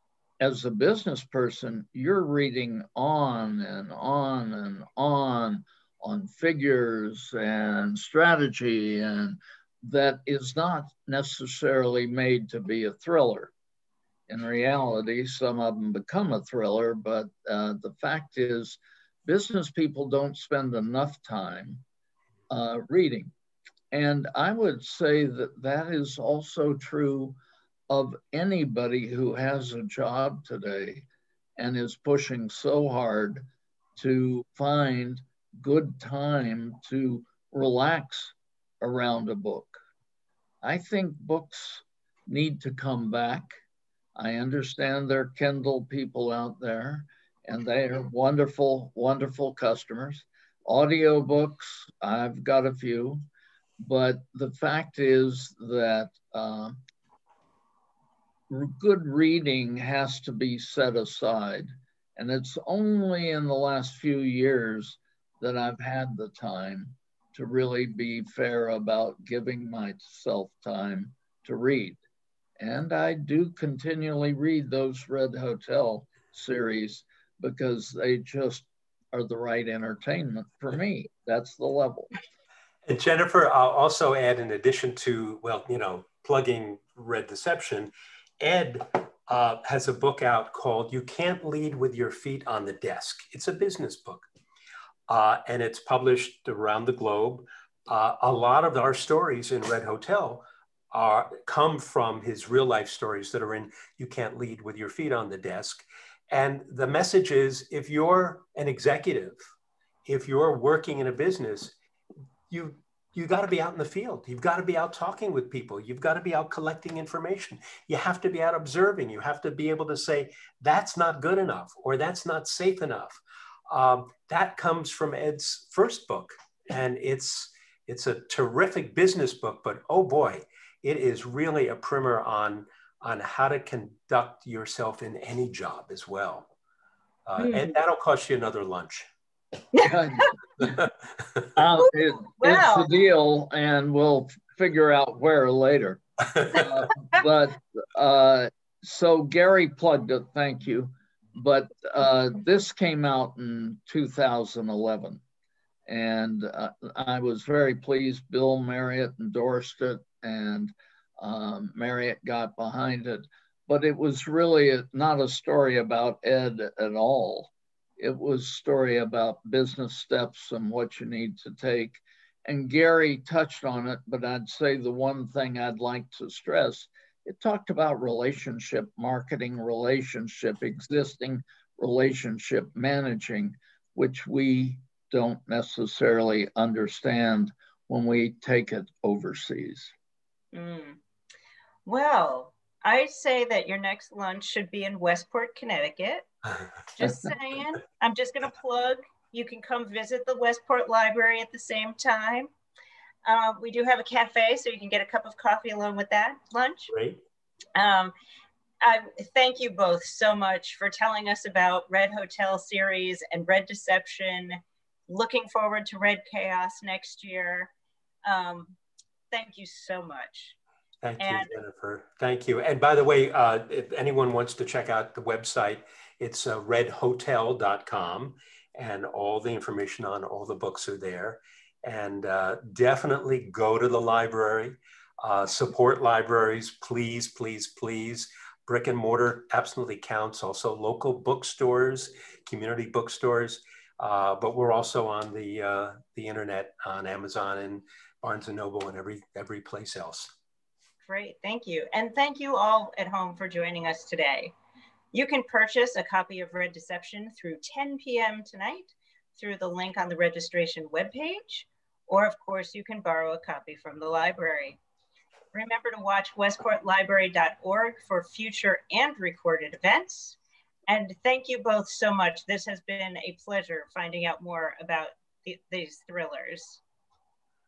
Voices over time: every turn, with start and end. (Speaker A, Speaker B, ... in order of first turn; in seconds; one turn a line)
Speaker A: 0.4-13.5
Speaker A: 14.3-21.8
Speaker A: 22.5-23.3
Speaker A: 23.9-27.4
Speaker A: 27.9-39.8
Speaker A: 40.6-43.6
Speaker A: 44.1-53.2
Speaker A: 53.8-56.8
Speaker A: 58.5-72.0
Speaker A: 72.6-82.1
Speaker B: 82.8-94.3
Speaker B: 95.1-109.4
Speaker B: 110.0-111.8
Speaker B: 112.5-136.5
Speaker B: 137.3-139.1
Speaker C: 137.4-137.7
Speaker C: 139.7-140.3
Speaker A: 139.8-140.6
Speaker B: 140.6-140.9
Speaker A: 141.6-155.2
Speaker C: 141.8-142.9
Speaker B: 146.4-146.6
Speaker A: 155.8-189.9
Speaker C: 190.5-191.0
Speaker C: 191.8-196.3
Speaker C: 196.9-202.5
Speaker C: 203.2-206.9
Speaker B: 206.9-207.2
Speaker C: 207.7-208.1
Speaker C: 208.8-217.7
Speaker C: 218.2-218.8
Speaker C: 219.3-220.6
Speaker B: 221.0-250.3
Speaker C: 221.2-221.6
Speaker C: 251.0-254.5
Speaker C: 255.1-264.8
Speaker C: 265.5-270.4
Speaker C: 270.9-276.8